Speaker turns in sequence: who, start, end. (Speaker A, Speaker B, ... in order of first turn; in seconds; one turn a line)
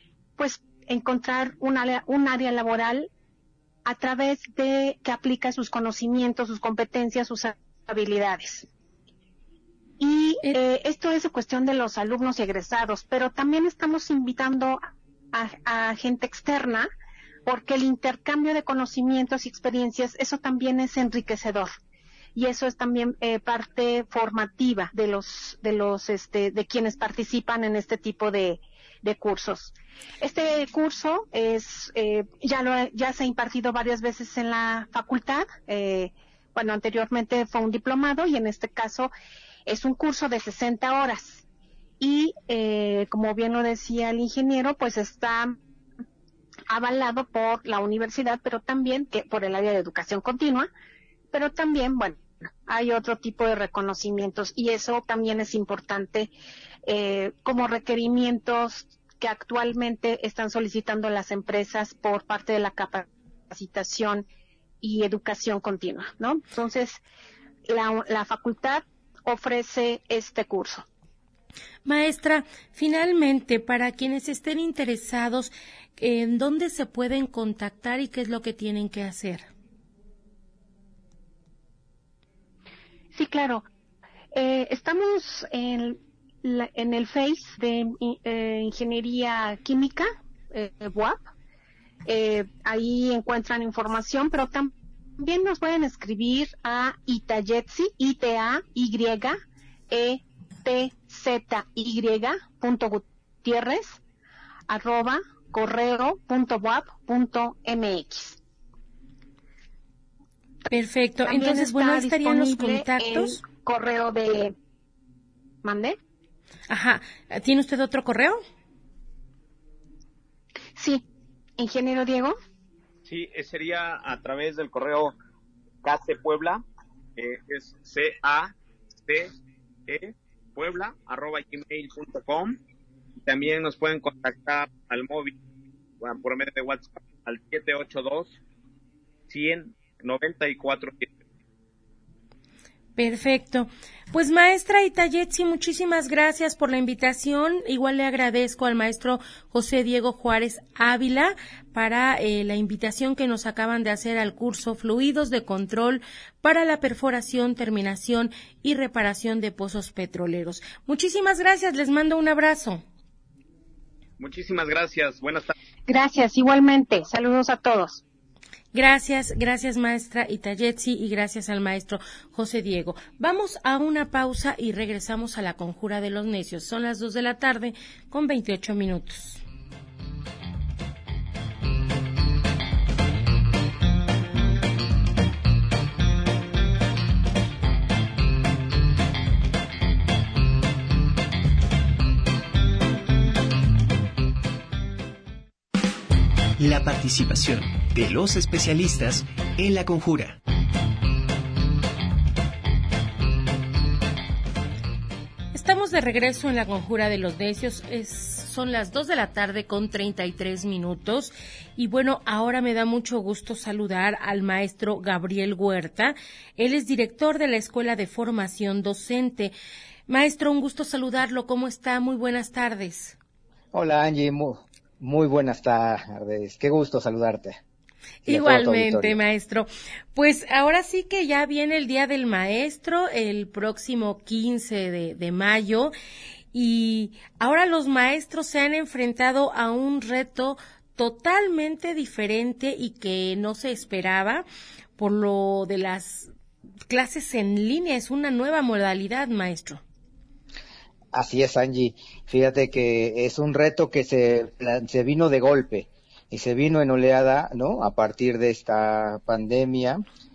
Speaker A: 0.4-3.1
Speaker A: 3.9-8.7
Speaker A: 10.0-16.9
Speaker A: 17.4-21.7
Speaker A: 22.4-39.1
Speaker A: 39.6-41.4
Speaker A: 42.0-45.6
Speaker A: 46.7-50.7
Speaker A: 51.3-56.3
Speaker A: 56.9-64.2
Speaker A: 64.8-67.0
Speaker A: 67.7-70.9
Speaker B: 71.9-79.5
Speaker A: 83.1-83.6
Speaker A: 84.3-91.2
Speaker A: 92.1-99.4
Speaker A: 99.9-104.0
Speaker A: 104.7-108.4
Speaker B: 110.7-113.4
Speaker A: 111.2-114.5
Speaker A: 115.6-116.0
Speaker B: 116.7-118.4
Speaker A: 120.8-121.0
Speaker A: 121.6-122.3
Speaker C: 123.1-125.1
Speaker C: 125.8-126.6
Speaker C: 127.2-128.5
Speaker C: 129.1-129.3
Speaker C: 129.9-132.6
Speaker C: 133.2-135.4
Speaker C: 136.0-138.4
Speaker C: 139.3-141.1
Speaker B: 143.0-162.8
Speaker C: 164.2-165.5
Speaker A: 165.9-168.0
Speaker B: 168.7-179.4
Speaker D: 196.6-200.4
Speaker B: 205.5-219.5
Speaker B: 220.1-223.2
Speaker E: 223.7-227.6
Speaker E: 228.2-229.2
Speaker B: 228.3-235.9
Speaker B: 236.5-244.4
Speaker B: 245.0-246.3
Speaker B: 246.9-249.8
Speaker E: 251.1-260.0